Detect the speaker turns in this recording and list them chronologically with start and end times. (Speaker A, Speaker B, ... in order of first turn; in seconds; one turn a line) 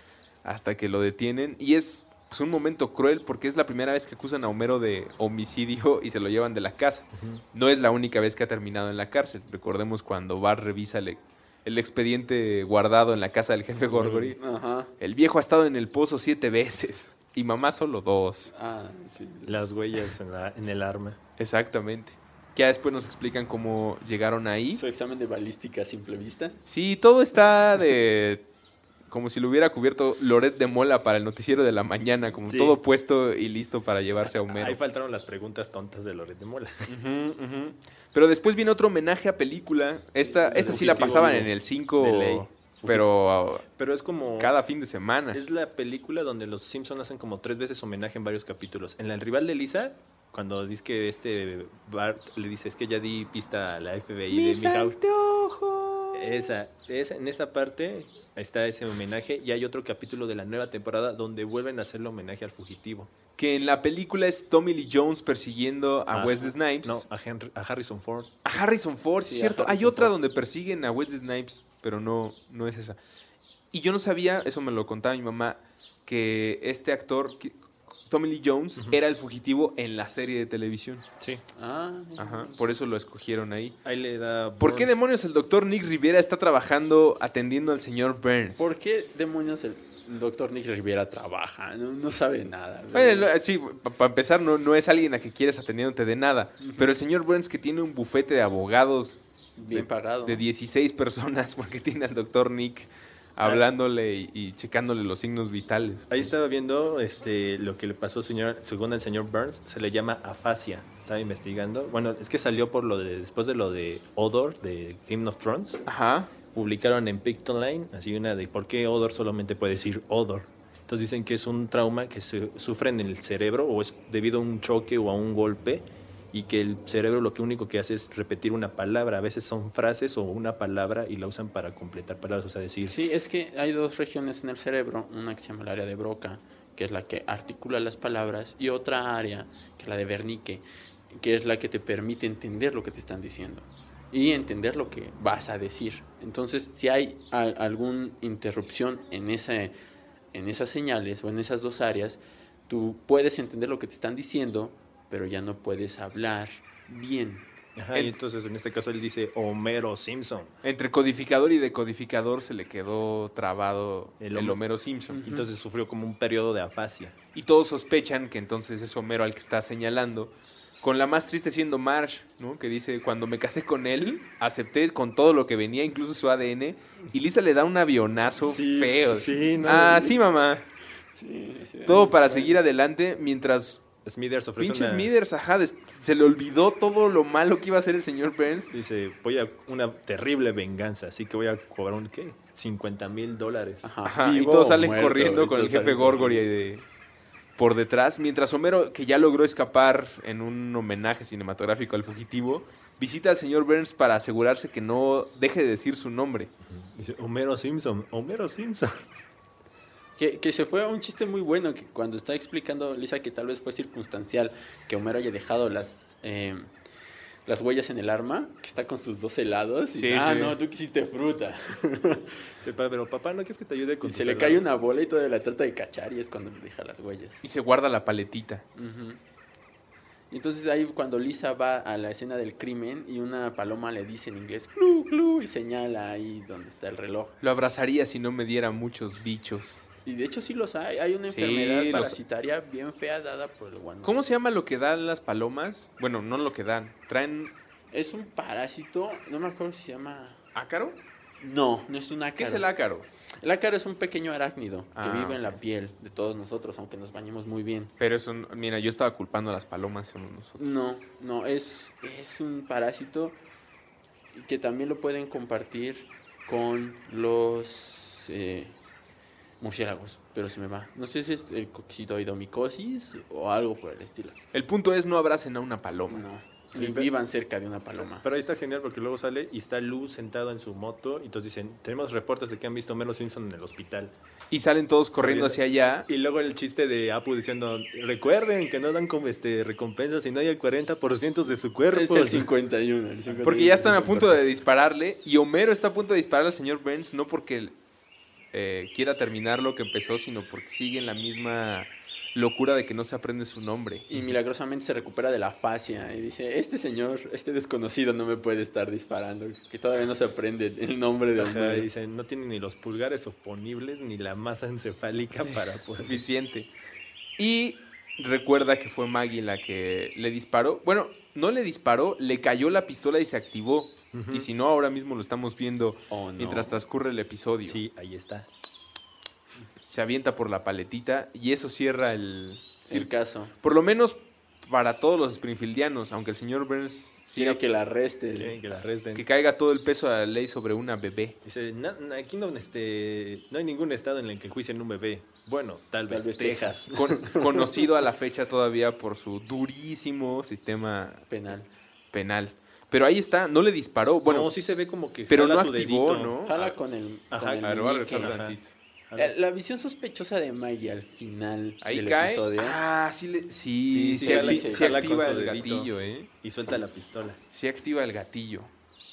Speaker A: 0.4-14.4
Speaker B: 7.1-7.4
Speaker B: 13.8-14.4
Speaker C: 14.4-14.9
Speaker A: 15.0-18.5
Speaker C: 18.5-19.6
Speaker B: 19.5-21.2
Speaker A: 21.4-24.8
Speaker C: 24.7-26.6
Speaker A: 26.7-28.4
Speaker A: 29.1-34.8
Speaker B: 32.5-32.8
Speaker B: 34.3-37.0
Speaker A: 36.9-43.7
Speaker C: 40.2-41.4
Speaker B: 40.5-43.1
Speaker B: 43.8-44.5
Speaker A: 44.4-45.4
Speaker B: 45.3-55.0
Speaker A: 54.3-56.3
Speaker B: 56.1-63.1
Speaker A: 63.4-67.0
Speaker B: 66.1-68.4
Speaker A: 68.5-73.0
Speaker C: 69.2-70.1
Speaker A: 73.7-77.6
Speaker A: 78.1-81.0
Speaker C: 81.5-82.6
Speaker A: 82.2-83.8
Speaker B: 83.8-85.0
Speaker A: 84.6-88.6
Speaker C: 88.6-93.3
Speaker A: 92.9-106.1
Speaker C: 96.6-96.9
Speaker C: 99.6-100.4
Speaker B: 106.1-115.8
Speaker A: 115.9-116.3
Speaker B: 116.5-132.9
Speaker C: 132.9-149.8
Speaker C: 150.3-157.5
Speaker B: 157.8-160.6
Speaker A: 160.6-165.2
Speaker B: 164.2-164.6
Speaker C: 165.1-165.4
Speaker B: 165.2-167.2
Speaker A: 167.3-180.7
Speaker B: 178.4-180.2
Speaker C: 179.6-180.0
Speaker C: 181.1-182.5
Speaker A: 181.9-183.8
Speaker B: 184.1-185.1
Speaker A: 184.6-188.7
Speaker B: 188.7-193.9
Speaker C: 193.8-196.5
Speaker A: 194.1-196.8
Speaker A: 197.6-206.5
Speaker B: 206.6-209.1
Speaker C: 210.2-216.7
Speaker C: 217.5-222.5
Speaker A: 219.9-220.6
Speaker B: 222.6-224.7
Speaker C: 224.0-227.4
Speaker A: 227.4-228.6
Speaker C: 228.8-229.2
Speaker C: 230.3-237.4
Speaker A: 237.4-239.8
Speaker C: 240.1-244.2
Speaker A: 241.3-242.2
Speaker A: 244.0-247.5
Speaker C: 247.9-250.4
Speaker A: 250.6-251.0
Speaker C: 251.4-252.7
Speaker A: 252.4-253.1
Speaker C: 253.4-257.9
Speaker A: 254.9-255.6
Speaker A: 258.0-260.6
Speaker C: 260.6-263.4
Speaker C: 264.3-268.8
Speaker C: 269.6-274.4
Speaker A: 274.5-276.2
Speaker C: 276.1-278.2
Speaker B: 276.7-277.1
Speaker B: 278.2-284.1
Speaker A: 284.5-286.1
Speaker B: 285.2-292.5
Speaker C: 291.9-294.4
Speaker A: 293.4-297.8
Speaker A: 298.5-304.1
Speaker C: 304.1-311.9
Speaker B: 311.4-316.2
Speaker A: 315.4-316.7
Speaker A: 317.4-327.8
Speaker B: 324.1-324.5
Speaker C: 326.1-326.8
Speaker B: 327.6-328.5
Speaker A: 329.9-337.6
Speaker C: 332.9-333.5
Speaker C: 337.4-338.6
Speaker B: 338.3-339.3
Speaker A: 339.1-341.4
Speaker B: 341.4-347.1
Speaker C: 346.1-347.9
Speaker A: 346.4-351.3
Speaker C: 351.3-351.7
Speaker A: 352.1-354.5
Speaker B: 354.3-356.7
Speaker A: 355.3-356.5
Speaker C: 356.4-358.4
Speaker B: 357.3-358.6
Speaker A: 357.6-358.7
Speaker B: 359.1-359.3
Speaker C: 359.1-362.8
Speaker A: 361.8-366.3
Speaker B: 363.9-365.9
Speaker C: 364.2-365.1
Speaker B: 366.4-367.4
Speaker A: 367.5-368.7